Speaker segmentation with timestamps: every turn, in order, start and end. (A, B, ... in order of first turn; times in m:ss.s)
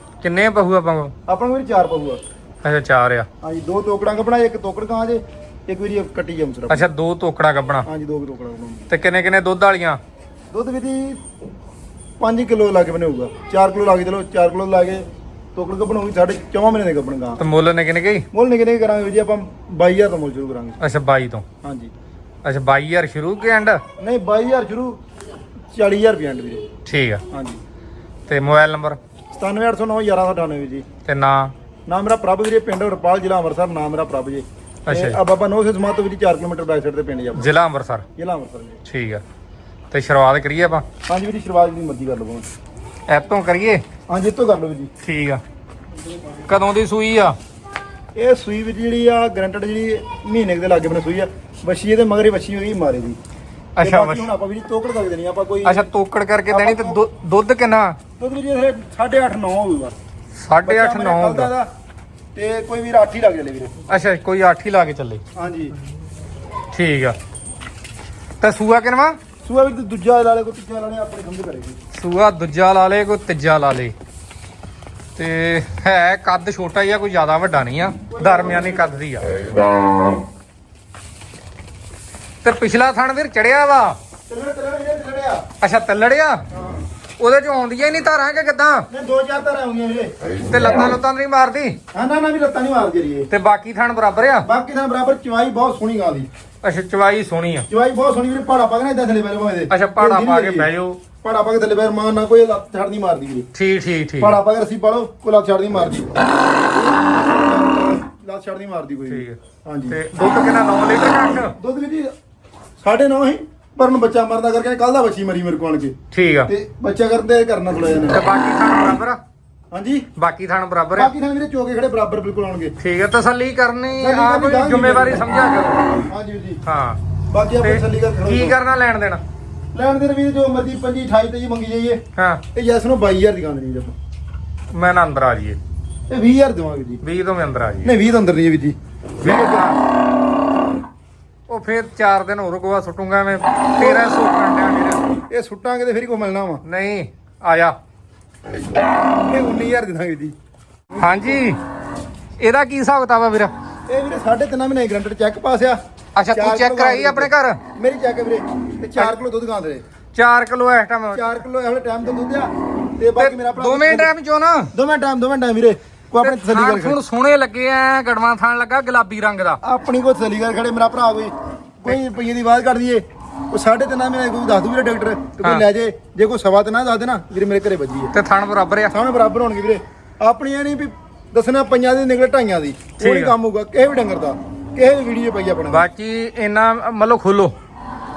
0:00.2-0:01.1 A
0:01.3-0:02.2 B
0:02.6-0:03.3 A
0:03.4-0:06.9 B
0:06.7-0:07.9 A
0:07.8-0:08.9 B
0:08.9-0:10.0 A
0:10.5-0:11.2 B
0:12.2-0:17.4 B
0:17.4-0:18.2 A
0:18.3-0:20.8 B
0:20.8-0:21.4 A
0:21.6-0:21.9 B
0:22.4-0:23.8 A
0:24.0-0:25.0 B
0:25.7-0:26.6 B
0:26.8-0:27.2 A
0:27.3-0:27.6 B
0:28.3-0:29.0 A
0:29.3-0:30.8 B
0:31.0-0:31.5 A
0:31.9-0:37.5 B
0:34.9-0:35.2 A
0:37.4-0:38.0 A
0:38.2-0:38.8 B
0:38.8-0:39.2 A
0:39.9-0:40.9 A
0:41.1-0:42.5 B
0:43.1-0:43.8 A
0:44.1-0:44.9 B
0:45.0-0:45.4 A
0:46.5-0:47.4 A
0:48.2-0:53.2 B
0:53.8-0:54.3 A
0:53.8-0:55.8 B
0:55.6-0:58.0 A
0:56.5-0:57.0 B
0:58.2-0:59.9 B
1:00.4-1:01.5 A
1:00.6-1:01.7 B
1:02.3-1:03.7 B
1:03.9-1:05.2 A
1:05.3-1:05.8 B
1:06.7-1:07.2 A
1:08.4-1:09.2 A
1:09.4-1:11.8 B
1:11.9-1:13.9 A
1:15.2-1:19.3 A
1:18.1-1:19.0 B
1:22.4-1:24.0 A
1:24.3-1:25.4 B
1:25.6-1:26.4 A
1:26.5-1:26.8 B
1:27.2-1:28.9 A
1:28.9-1:30.1 B
1:30.5-1:31.8 A
1:31.9-1:33.3 B
1:33.3-1:34.5 A
1:34.4-1:36.3 B
1:36.6-1:37.7 A
1:37.7-1:40.7 B
1:39.7-1:41.0 A
1:41.2-1:43.5 B
1:43.5-1:44.4 A
1:44.2-1:50.0 B
1:49.1-1:49.4 A
1:49.9-1:51.6 A
1:51.6-1:52.1 B
1:52.8-1:55.9 B
1:56.1-1:56.5 A
1:56.5-1:58.2 B
1:58.1-1:59.2 A
1:59.7-2:00.0 B
2:00.2-2:01.1 A
2:01.0-2:02.7 B
2:02.8-2:05.9 A
2:04.0-2:05.3 B
2:05.9-2:06.6 B
2:06.6-2:07.0 A
2:07.3-2:08.6 B
2:07.6-2:09.2 A
2:09.7-2:12.0 B
2:12.2-2:12.4 A
2:12.5-2:13.9 B
2:14.7-2:15.6 A
2:16.1-2:17.0 B
2:17.0-2:17.9 A
2:17.8-2:19.7 B
2:19.2-2:19.8 A
2:21.5-2:25.1 A
2:23.8-2:24.2 B
2:25.3-2:26.6 B
2:26.6-2:27.7 A
2:29.2-2:30.3 B
2:30.9-2:31.4 B
2:31.0-2:31.6 A
2:32.4-2:33.5 A
2:33.9-2:35.8 B
2:36.2-2:37.6 A
2:36.3-2:39.8 B
2:40.1-2:41.3 A
2:41.1-2:44.1 B
2:43.2-2:44.7 A
2:44.7-2:47.0 B
2:46.2-2:49.6 A
2:49.6-2:58.1 B
2:58.1-2:58.9 A
2:58.9-3:05.9 B
3:03.0-3:03.3 A
3:05.7-3:07.5 A